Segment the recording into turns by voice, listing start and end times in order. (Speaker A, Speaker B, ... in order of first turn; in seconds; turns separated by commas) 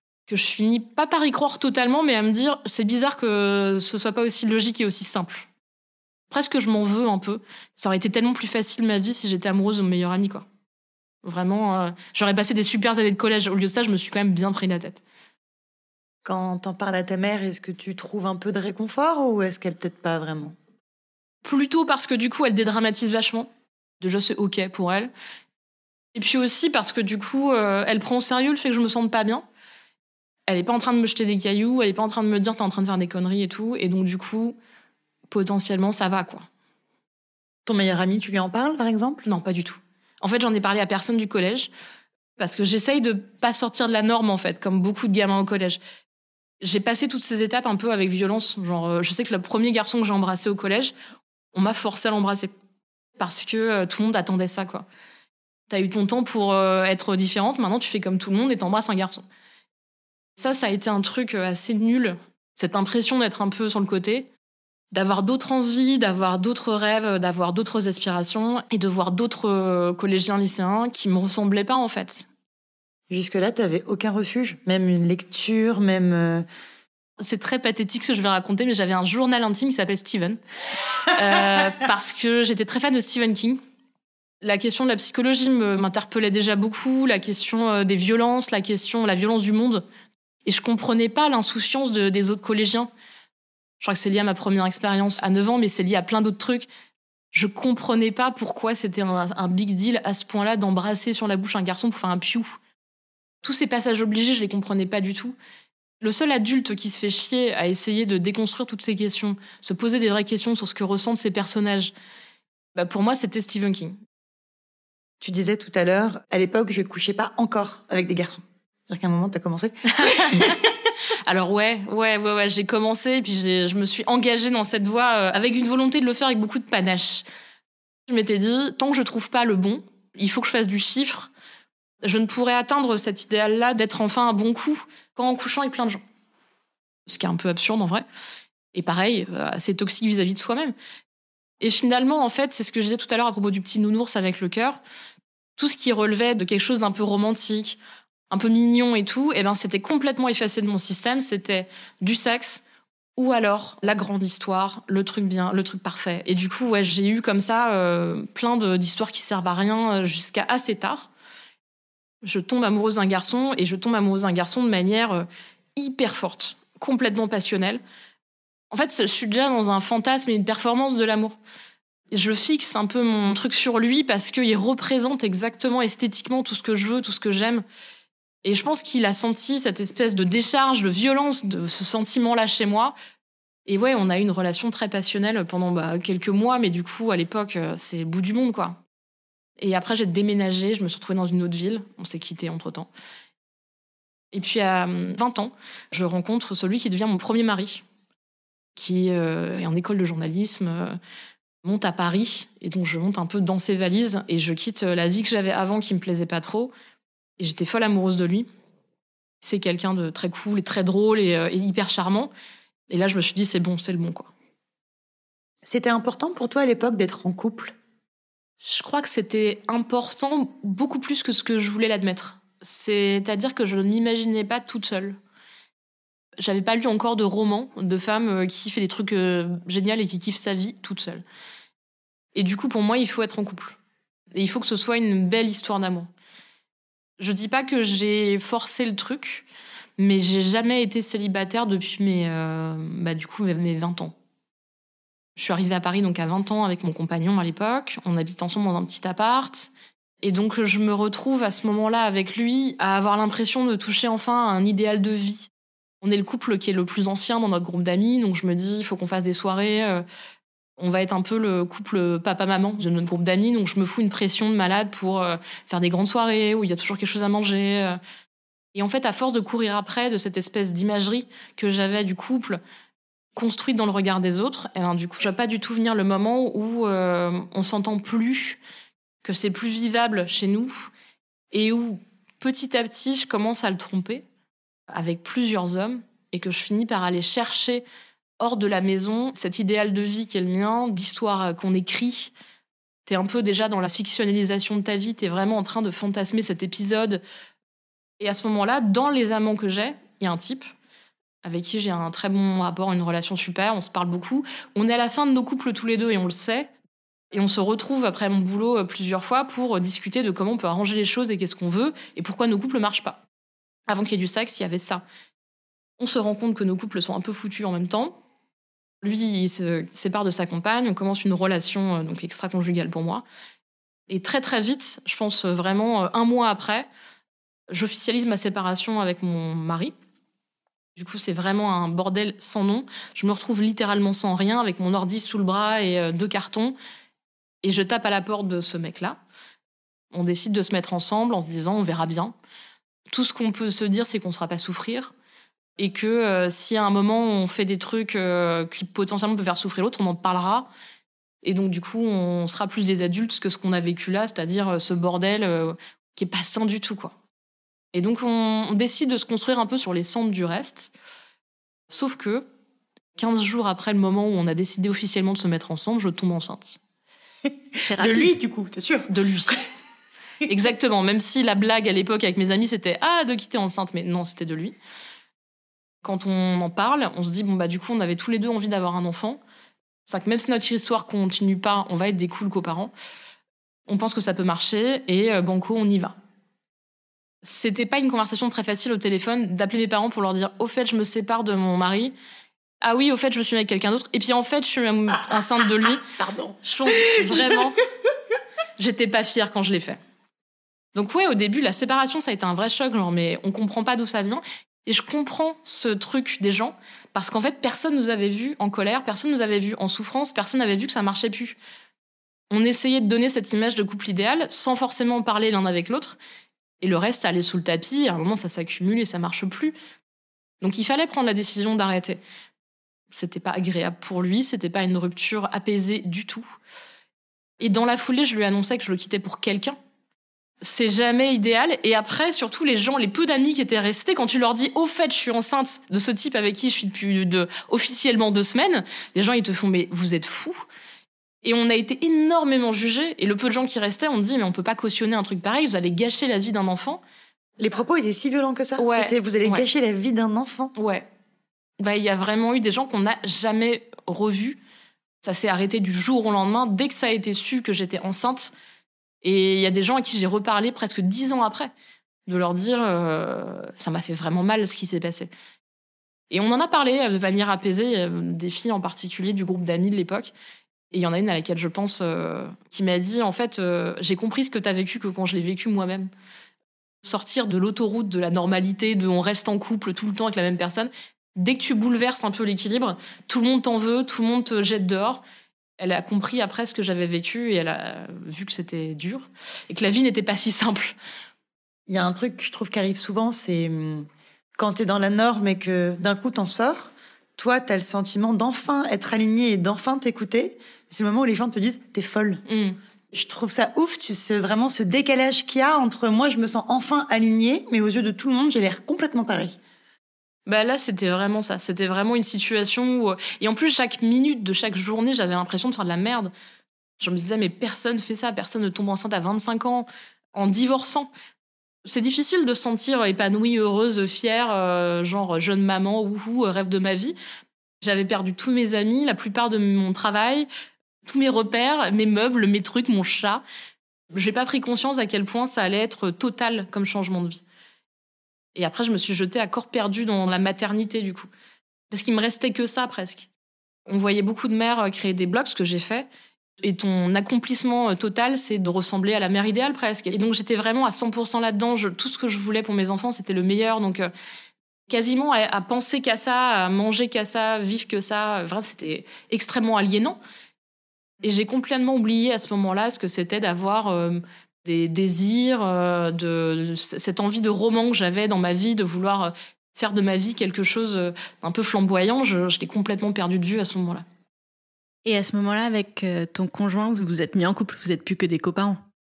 Speaker A: 0.3-5.5, Speaker A: 6.3-10.4, Speaker A: 11.2-15.0, Speaker B: 16.2-20.6, Speaker A: 21.4-23.5, Speaker A: 24.0-25.1, Speaker A: 26.1-29.4, Speaker A: 30.5-34.5, Speaker A: 35.3-36.5, Speaker B: 37.6-39.2, Speaker A: 39.2-41.7, Speaker A: 42.4-45.8, Speaker A: 46.6-50.9, Speaker A: 51.5-52.5, Speaker A: 53.2-54.8, Speaker A: 55.7-59.2, Speaker A: 60.4-64.3, Speaker A: 64.9-72.3, Speaker B: 73.1-76.4, Speaker A: 77.2-80.4, Speaker A: 81.0-83.6, Speaker A: 84.4-89.8, Speaker A: 90.5-92.9, Speaker A: 93.8-96.7, Speaker A: 97.3-102.6, Speaker A: 103.4-105.3, Speaker A: 106.0-111.9, Speaker A: 112.7-114.0, Speaker B: 115.2-120.5, Speaker A: 119.9-120.7, Speaker A: 121.3-127.2, Speaker A: 128.1-131.3, Speaker A: 132.0-136.0, Speaker A: 137.1-138.0, Speaker A: 138.7-140.7, Speaker A: 141.6-144.8, Speaker A: 145.6-147.8, Speaker A: 148.3-152.6, Speaker A: 153.2-161.1, Speaker A: 162.2-167.8, Speaker A: 168.7-171.3, Speaker A: 172.1-177.6, Speaker A: 178.4-182.9, Speaker A: 183.7-188.8, Speaker A: 189.6-192.9, Speaker A: 194.3-197.8, Speaker A: 198.8-201.0, Speaker A: 201.6-206.7, Speaker A: 207.4-208.5, Speaker A: 209.4-212.3, Speaker A: 212.9-214.3, Speaker B: 215.6-217.7, Speaker A: 218.6-225.2, Speaker A: 226.4-231.2, Speaker A: 232.3-233.8, Speaker A: 234.3-236.1, Speaker A: 237.2-239.5, Speaker A: 240.0-244.1, Speaker A: 245.3-249.7, Speaker A: 250.2-255.5, Speaker A: 256.0-260.0, Speaker A: 260.8-268.0, Speaker A: 268.7-272.6, Speaker A: 273.3-278.6, Speaker A: 279.2-280.9, Speaker A: 281.5-284.2, Speaker A: 284.9-287.8, Speaker A: 288.4-292.3, Speaker A: 293.1-297.2, Speaker A: 298.2-300.7, Speaker A: 301.4-306.7, Speaker A: 307.3-313.2, Speaker A: 313.9-315.0, Speaker A: 316.0-318.2, Speaker A: 319.0-323.2, Speaker A: 324.1-326.9, Speaker A: 327.7-329.9, Speaker A: 330.9-336.8, Speaker A: 337.6-339.2, Speaker A: 340.1-342.3, Speaker A: 343.1-345.1, Speaker A: 345.8-350.7, Speaker A: 351.4-357.1, Speaker A: 357.9-360.9, Speaker A: 361.9-362.4, Speaker A: 363.1-366.8, Speaker C: 367.8-368.3, Speaker B: 368.0-369.1, Speaker A: 369.1-369.6, Speaker A: 370.4-374.8, Speaker A: 376.0-379.4, Speaker A: 380.1-382.9, Speaker A: 383.9-386.1, Speaker A: 387.4-392.1, Speaker A: 392.8-396.0, Speaker B: 396.0-397.6, Speaker A: 396.6-397.8, Speaker A: 398.8-400.0, Speaker A: 400.9-411.6, Speaker A: 412.5-416.2, Speaker A: 416.8-419.7, Speaker A: 420.6-422.2, Speaker A: 423.1-426.4, Speaker A: 427.6-429.8, Speaker A: 430.6-440.6, Speaker A: 441.4-447.0, Speaker B: 447.6-450.7, Speaker A: 448.8-449.6, Speaker A: 450.8-451.1, Speaker A: 451.8-454.6, Speaker A: 455.2-458.5, Speaker A: 459.2-461.7, Speaker A: 462.3-465.3, Speaker A: 466.3-470.3, Speaker A: 470.9-476.1, Speaker A: 477.0-485.2, Speaker A: 485.8-490.9, Speaker B: 491.9-502.4, Speaker A: 502.5-502.8, Speaker B: 503.1-509.6, Speaker A: 510.5-516.3, Speaker A: 517.0-521.1, Speaker A: 521.8-527.1, Speaker A: 527.8-530.5, Speaker A: 531.0-533.4, Speaker A: 534.1-537.4, Speaker A: 538.5-541.3, Speaker A: 541.9-543.3, Speaker A: 543.9-546.1, Speaker A: 546.6-554.1, Speaker A: 554.9-560.2, Speaker A: 561.2-574.0, Speaker C: 575.0-578.8